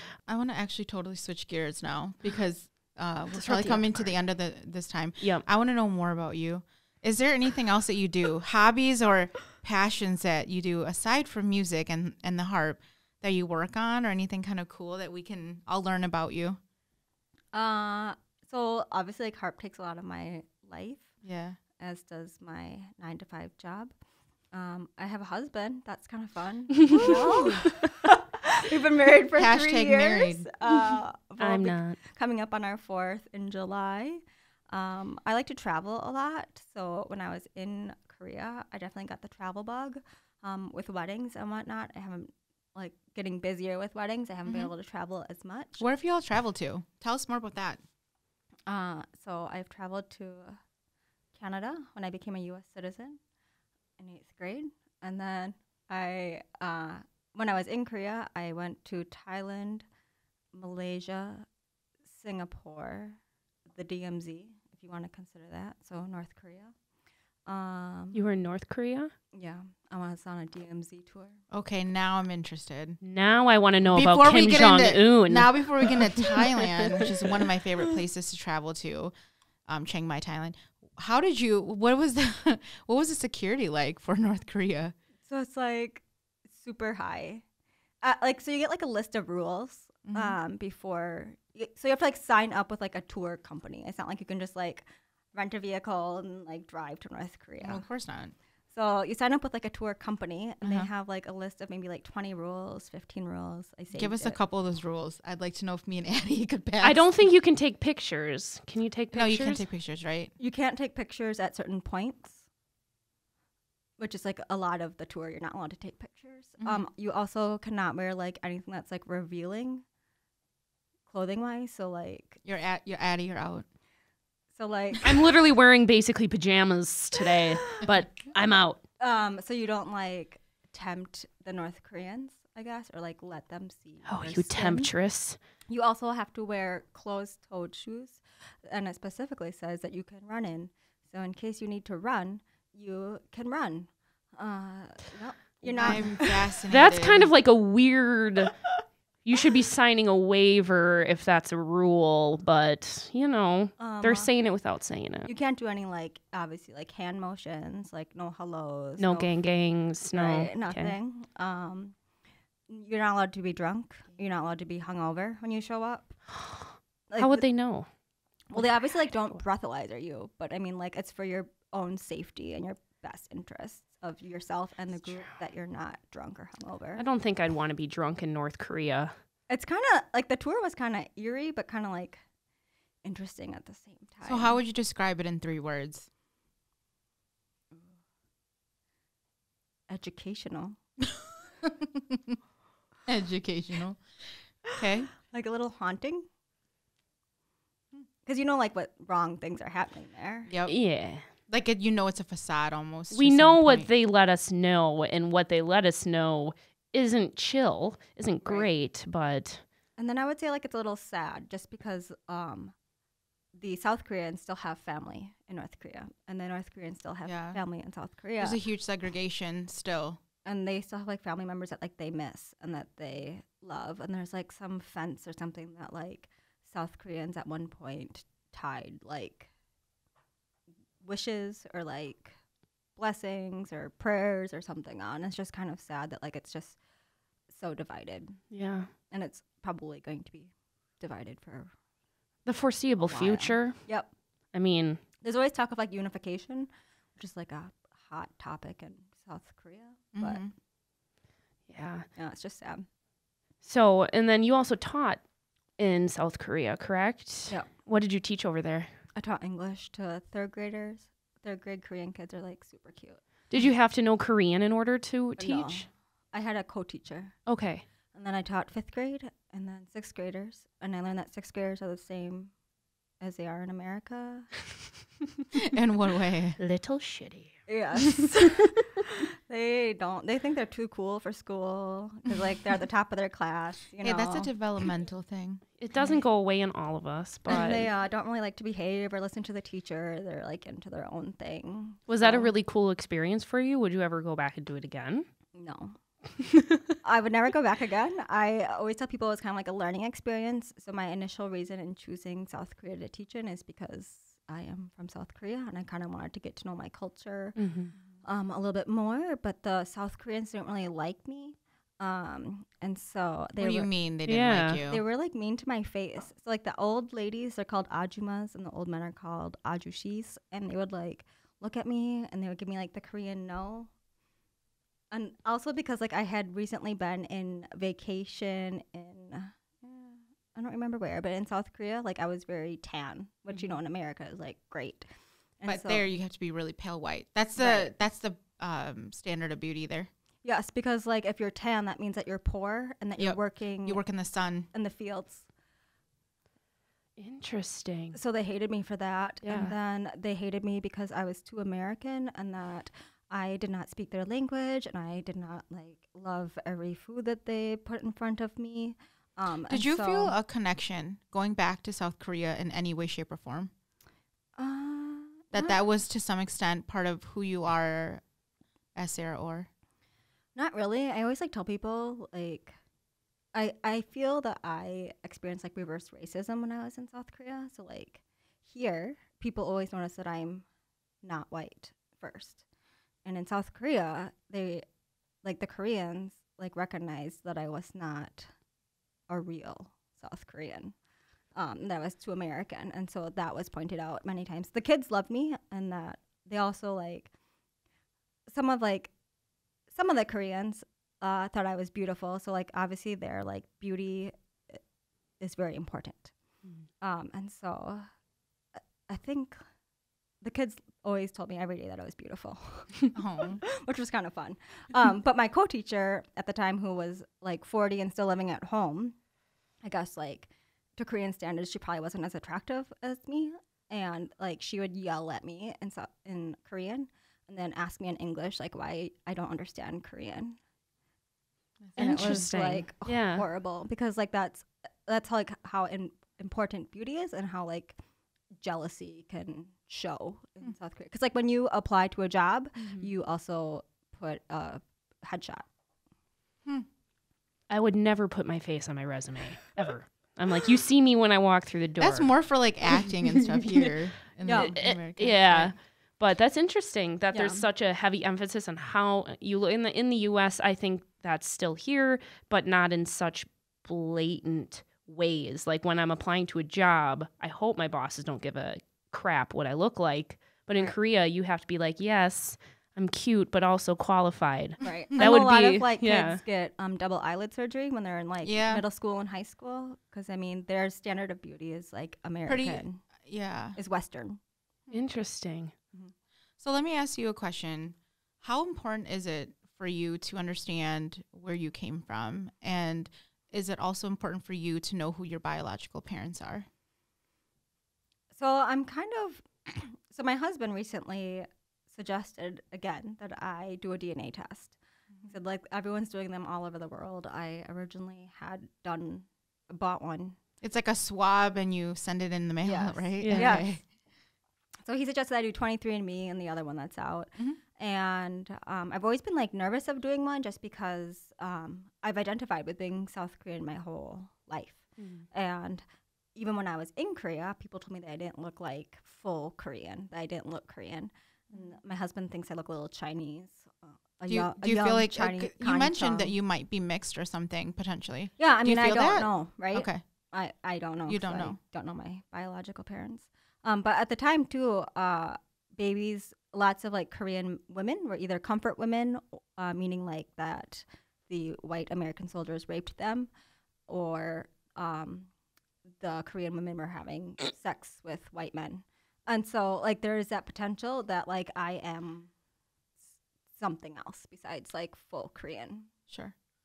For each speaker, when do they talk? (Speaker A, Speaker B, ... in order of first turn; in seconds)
Speaker A: 0.3-16.6, 21.2-21.6, 27.0-27.6, 29.4-30.5, 44.5-44.7, 45.8-47.8, 71.5-73.0, 73.9-79.1, 79.7-85.0, 90.1-90.4, 97.6-98.3, 100.6-100.9, 103.9-107.1, 109.1-110.3, 116.6-116.9, 122.5-123.7, 145.8-147.3, 184.2-186.1, 191.2-192.4, 193.1-195.1, 200.5-200.8, 201.5-203.9, 217.2-217.6, 218.4-220.2, 250.1-250.5, 275.6-276.6, 284.0-285.6, 313.6-315.0, 335.7-340.1, 343.2-344.7, 359.7-363.7, 365.5-368.2, 368.9-369.7, 413.1-413.6, 431.8-432.5, 442.8-443.1, 452.0-455.8, 478.4-478.8, 482.5-483.8, 486.6-496.7, 510.6-513.9, 534.3-540.0, 541.1-541.6, 566.1-566.4
Speaker B: 3.3-4.2, 5.2-5.5, 26.9-27.7, 31.4-32.0, 68.1-69.1, 73.0-77.2, 106.8-109.7, 125.0-128.8, 134.1-135.4, 145.7-148.6, 149.2-155.3, 159.0-160.9, 167.2-167.9, 177.0-179.2, 200.7-201.3, 203.1-209.6, 238.5-238.9, 242.4-243.9, 244.5-245.0, 251.7-252.1, 253.6-255.2, 255.8-259.0, 263.5-265.9, 267.5-267.9, 276.6-278.3, 285.8-287.9, 292.1-295.3, 296.4-296.8, 307.6-307.9, 314.3-314.8, 347.2-348.2, 349.4-349.8, 432.0-433.4, 447.7-452.4, 452.9-453.9, 454.5-476.4, 484.9-485.7, 513.2-513.6, 525.0-525.3
Speaker C: 17.5-21.1, 21.8-23.9, 24.5-45.9, 48.7-50.6, 51.3-53.2, 54.0-59.9, 60.5-61.5, 62.1-63.2, 63.8-66.7, 67.5-68.2, 69.3-71.4, 85.2-87.4, 88.0-97.9, 98.7-104.4, 110.4-112.4, 114.0-119.8, 121.1-122.4, 124.5-125.2, 129.0-134.9, 135.7-146.5, 153.8-154.3, 155.3-159.3, 160.1-162.0, 162.7-166.2, 167.1-167.5, 168.5-177.0, 179.5-182.2, 183.0-184.6, 189.9-190.8, 195.3-196.3, 198.2-200.5, 208.4-208.7, 210.0-212.8, 213.6-218.6, 220.4-229.5, 231.0-232.4, 233.0-236.8, 237.5-238.4, 239.1-241.7, 243.0-244.1, 245.2-250.4, 252.2-252.9, 259.1-263.2, 265.4-267.4, 268.1-272.5, 273.2-274.5, 277.7-284.5, 285.9-286.2, 287.5-292.5, 295.5-296.0, 297.0-307.6, 308.2-313.9, 314.9-323.9, 325.1-335.1, 335.6-336.1, 337.6-337.9, 340.4-344.0, 344.7-345.5, 348.1-360.4, 364.6-365.8, 370.6-372.8, 373.5-380.7, 381.2-382.6, 383.2-384.9, 385.4-388.5, 389.3-390.9, 391.5-397.3, 398.5-399.1, 399.9-404.8, 405.4-406.3, 407.0-408.1, 409.1-409.6, 410.4-419.2, 419.8-430.6, 431.9-438.0, 438.6-445.7, 454.4-454.8, 457.3-457.7, 474.8-483.0, 483.8-484.4, 498.3-510.4, 512.6-513.8, 514.9-525.8, 526.4-536.3, 538.4-553.3, 553.9-555.3, 556.0-562.3, 563.5-565.9